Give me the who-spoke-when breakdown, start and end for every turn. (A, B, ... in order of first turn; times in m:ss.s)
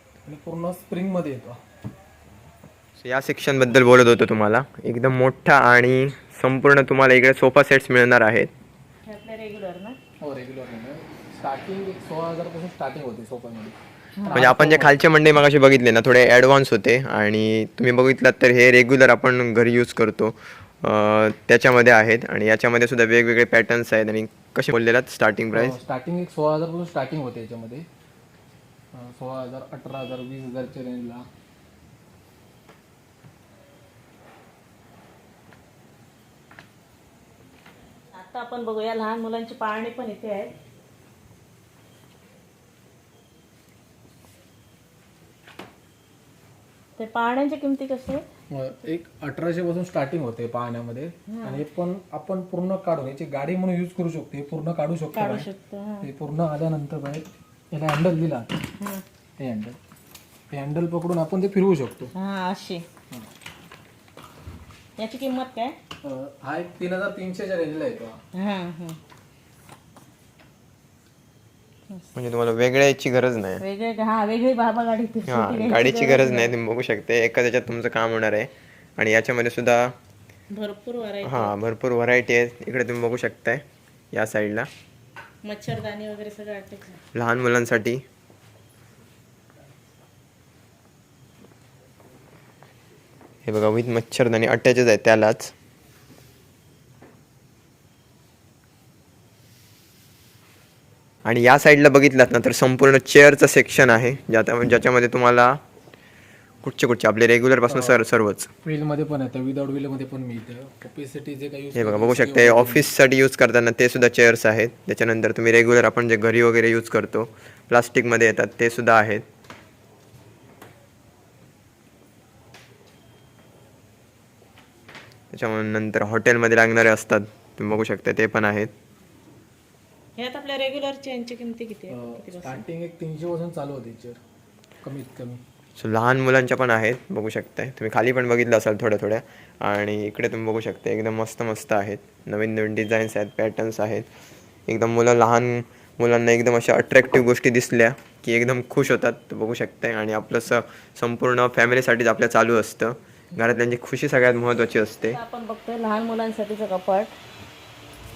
0:00.2-0:01.6 A
0:03.0-0:08.5 B
0:09.0-0:10.0 C
0:10.2-0:14.9 A
0:14.2-0:14.4 C
0:14.3-0:25.8 B
0:25.5-0:27.9 A
0:28.9-0:31.2 A
0:38.1-0:40.5 C
0:47.0-0:48.2 C
0:48.5-0:55.5 A
0:51.3-0:51.6 C
0:55.1-0:56.1 C
0:56.0-0:58.7 A
0:58.8-0:59.0 C
0:59.4-0:59.8 A
1:00.5-1:02.1 A
1:02.1-1:02.8 C
1:05.0-1:05.7 C
1:06.0-1:08.2 A
1:08.3-1:09.0 C
1:12.1-1:13.6 B
1:13.6-1:16.5 C
1:15.3-1:20.0 B
1:20.5-1:21.5 C
1:21.2-1:24.7 B
1:25.4-1:27.0 C
1:27.1-1:28.0 B
1:33.4-1:35.5 B
1:41.2-1:45.6 B
1:46.6-1:48.5 B
1:47.7-1:48.0 A
1:48.6-1:52.9 A
1:51.7-1:59.2 B
2:05.3-2:08.7 B
2:10.2-2:12.6 C
2:11.9-2:14.2 A
2:14.8-2:15.4 A
2:15.8-2:24.1 B
2:24.7-2:35.2 B
2:35.1-2:37.1 C